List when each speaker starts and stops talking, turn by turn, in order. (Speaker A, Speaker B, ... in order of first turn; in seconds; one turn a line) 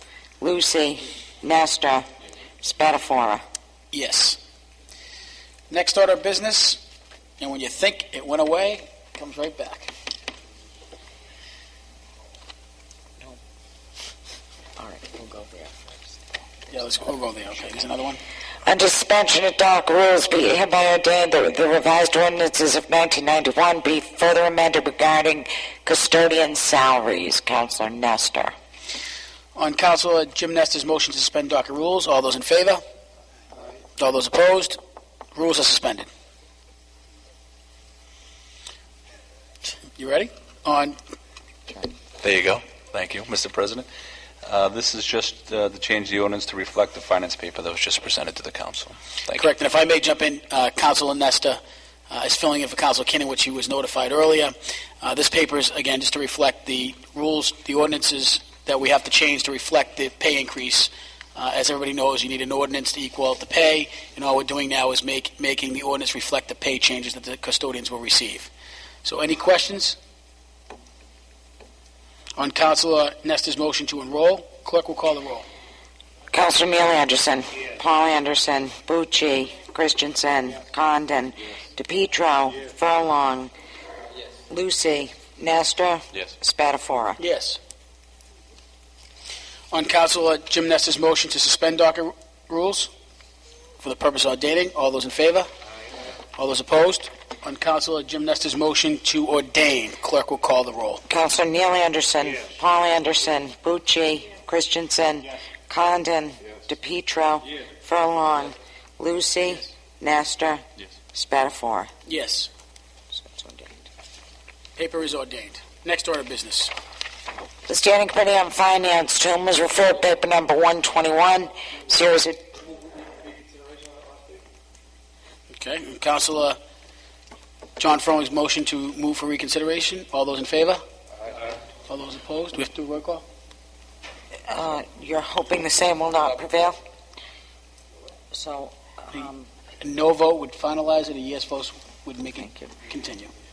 Speaker A: 0.4-2.0
Speaker A: 2.6-3.4
Speaker B: 3.9-4.4
Speaker B: 5.7-6.8
Speaker B: 7.4-9.9
Speaker A: 14.8-16.0
Speaker B: 16.7-18.2
Speaker A: 18.6-28.5
Speaker B: 29.5-32.8
Speaker B: 34.0-34.8
Speaker B: 35.3-36.1
Speaker B: 40.0-41.0
Speaker C: 42.2-43.9
Speaker C: 44.4-49.5
Speaker B: 49.3-68.5
Speaker B: 69.0-70.0
Speaker B: 72.3-75.5
Speaker A: 76.3-83.5
Speaker A: 84.5-87.2
Speaker B: 87.2-87.6
Speaker B: 89.7-92.9
Speaker B: 93.8-95.5
Speaker B: 96.3-101.0
Speaker A: 101.1-110.6
Speaker A: 111.1-111.9
Speaker B: 112.0-112.5
Speaker A: 113.1-113.8
Speaker B: 114.8-116.7
Speaker A: 117.7-122.4
Speaker B: 125.5-126.6
Speaker B: 127.8-130.8
Speaker B: 131.9-133.2
Speaker A: 134.5-136.8
Speaker A: 138.3-139.5
Speaker B: 139.8-143.3
Speaker A: 142.3-142.7